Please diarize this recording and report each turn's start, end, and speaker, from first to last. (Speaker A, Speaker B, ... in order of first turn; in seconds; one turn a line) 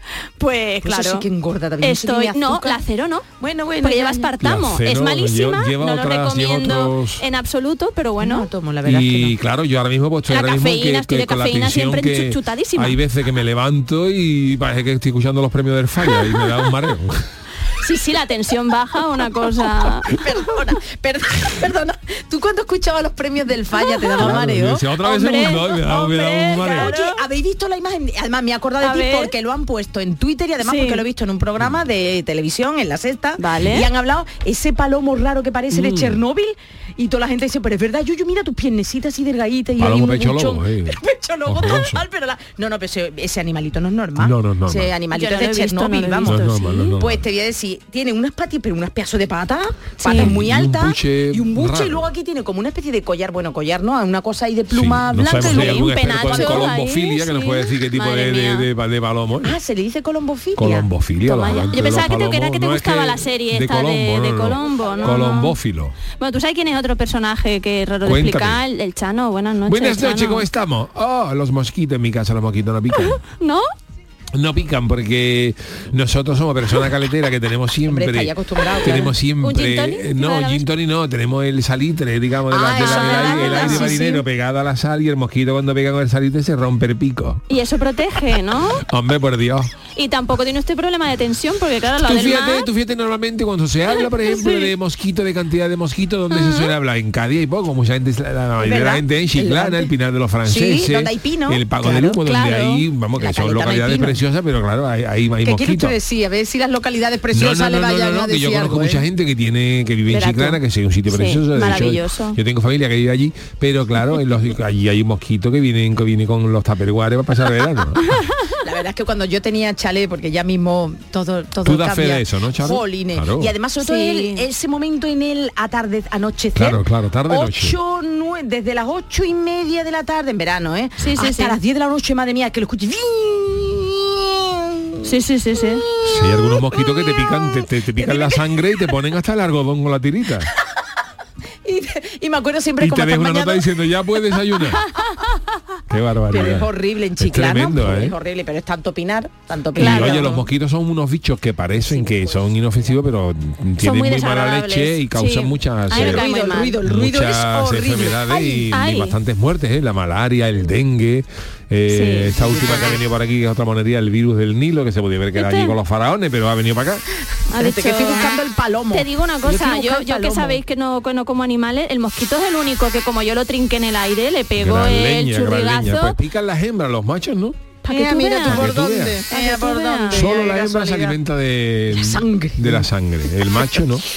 Speaker A: 0.4-1.3
Speaker B: 0.8-2.8
Speaker A: 1.8-3.2
Speaker B: 3.4-4.3
Speaker A: 3.8-8.5
Speaker C: 4.4-7.2
Speaker B: 8.2-9.3
Speaker C: 8.8-17.2
Speaker A: 10.3-13.0
Speaker A: 17.8-20.2
Speaker B: 20.0-56.7
Speaker A: 24.0-24.3
Speaker C: 24.2-26.9
Speaker A: 25.0-27.2
Speaker A: 28.8-29.3
Speaker A: 30.6-31.0
Speaker A: 33.4-33.9
Speaker C: 35.7-36.2
Speaker C: 39.8-42.0
Speaker C: 44.2-44.9
Speaker A: 45.1-46.9
Speaker C: 46.2-47.2
Speaker A: 50.0-50.3
Speaker C: 50.1-52.1
Speaker C: 54.7-59.6
Speaker A: 55.2-58.7
Speaker B: 59.4-60.9
Speaker C: 60.5-66.0
Speaker A: 61.2-65.5
Speaker B: 64.6-65.2
Speaker A: 66.2-70.5
Speaker C: 68.0-68.6
Speaker C: 69.6-73.2
Speaker A: 73.0-73.7
Speaker C: 74.3-87.5
Speaker B: 77.9-79.1
Speaker A: 78.7-80.6
Speaker B: 82.5-84.2
Speaker A: 82.7-83.9
Speaker A: 87.5-88.8
Speaker C: 88.8-89.8
Speaker A: 89.9-92.7
Speaker C: 92.0-106.0
Speaker A: 94.2-94.7
Speaker A: 96.3-96.7
Speaker B: 98.6-99.9
Speaker B: 100.4-102.2
Speaker A: 102.2-102.8
Speaker B: 103.2-104.2
Speaker B: 105.4-109.0
Speaker C: 107.3-118.2
Speaker A: 110.1-112.4
Speaker A: 118.1-118.5
Speaker B: 118.6-138.4
Speaker C: 121.6-123.5
Speaker A: 123.8-124.4
Speaker C: 126.5-127.8
Speaker A: 131.0-131.6
Speaker A: 135.0-135.8
Speaker C: 136.0-140.5
Speaker B: 141.6-143.7
Speaker C: 142.8-144.8
Speaker C: 145.9-148.2
Speaker B: 146.3-150.4
Speaker A: 149.7-150.4
Speaker C: 149.8-156.3
Speaker B: 151.9-152.5
Speaker A: 153.8-156.8
Speaker B: 155.9-158.7
Speaker C: 156.8-167.0
Speaker A: 158.7-159.2
Speaker A: 161.9-162.9
Speaker B: 162.4-162.9
Speaker A: 165.3-165.7
Speaker A: 167.5-168.4
Speaker B: 167.5-170.6
Speaker A: 168.9-176.2
Speaker C: 174.6-177.7
Speaker A: 177.8-178.7
Speaker B: 177.9-181.2
Speaker C: 178.4-179.2
Speaker A: 179.3-180.3
Speaker C: 180.1-184.1
Speaker B: 181.9-182.9